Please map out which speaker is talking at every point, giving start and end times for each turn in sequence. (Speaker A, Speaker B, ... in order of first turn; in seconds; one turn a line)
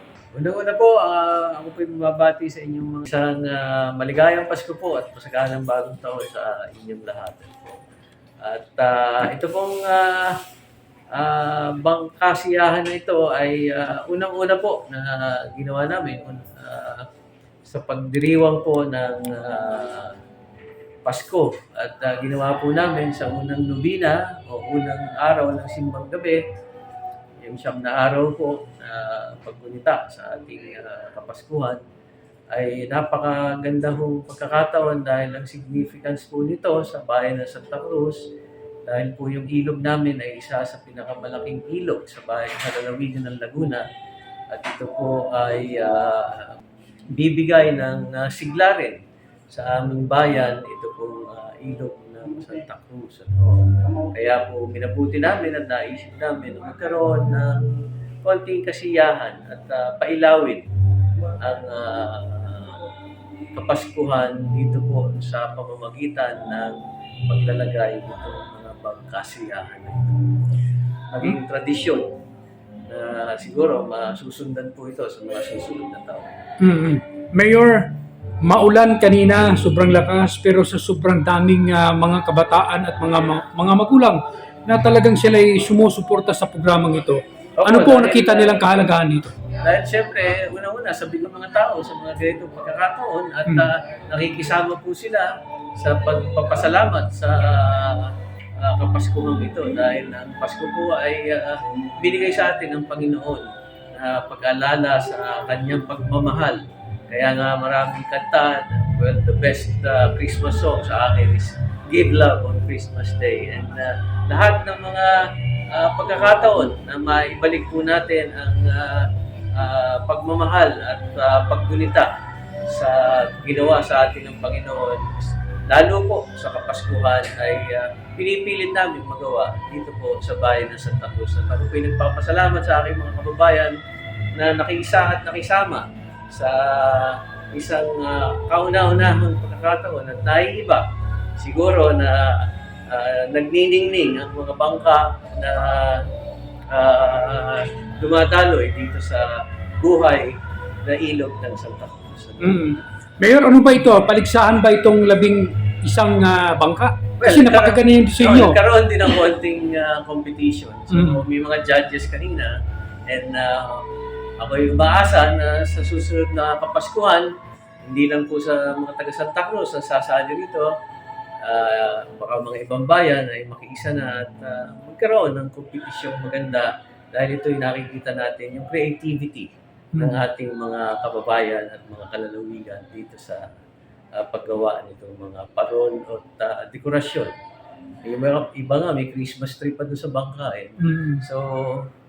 Speaker A: 0.3-7.8
Speaker A: 8.4-10.4
Speaker A: 11.1-17.1
Speaker A: 17.6-20.2
Speaker A: 21.1-26.4
Speaker A: 27.4-31.8
Speaker A: 32.5-38.2
Speaker A: 38.9-43.9
Speaker A: 44.5-46.6
Speaker A: 47.1-49.0
Speaker A: 49.5-60.7
Speaker A: 61.4-62.8
Speaker A: 63.5-70.3
Speaker A: 71.1-72.1
Speaker A: 72.9-76.4
Speaker B: 76.6-77.9
Speaker B: 78.4-89.3
Speaker A: 87.6-88.8
Speaker A: 89.6-115.2
Speaker A: 115.7-122.1
Speaker A: 122.7-133.8
Speaker A: 134.3-140.9
Speaker A: 141.4-146.0
Speaker A: 146.7-149.3
Speaker A: 149.8-152.7
Speaker B: 152.4-158.6
Speaker A: 157.2-162.5
Speaker B: 160.9-161.2
Speaker A: 163.1-163.8
Speaker A: 164.4-167.3
Speaker A: 167.8-170.7
Speaker A: 171.4-183.4
Speaker B: 179.9-180.2
Speaker A: 184.2-187.3
Speaker A: 188.1-191.9
Speaker B: 190.8-191.2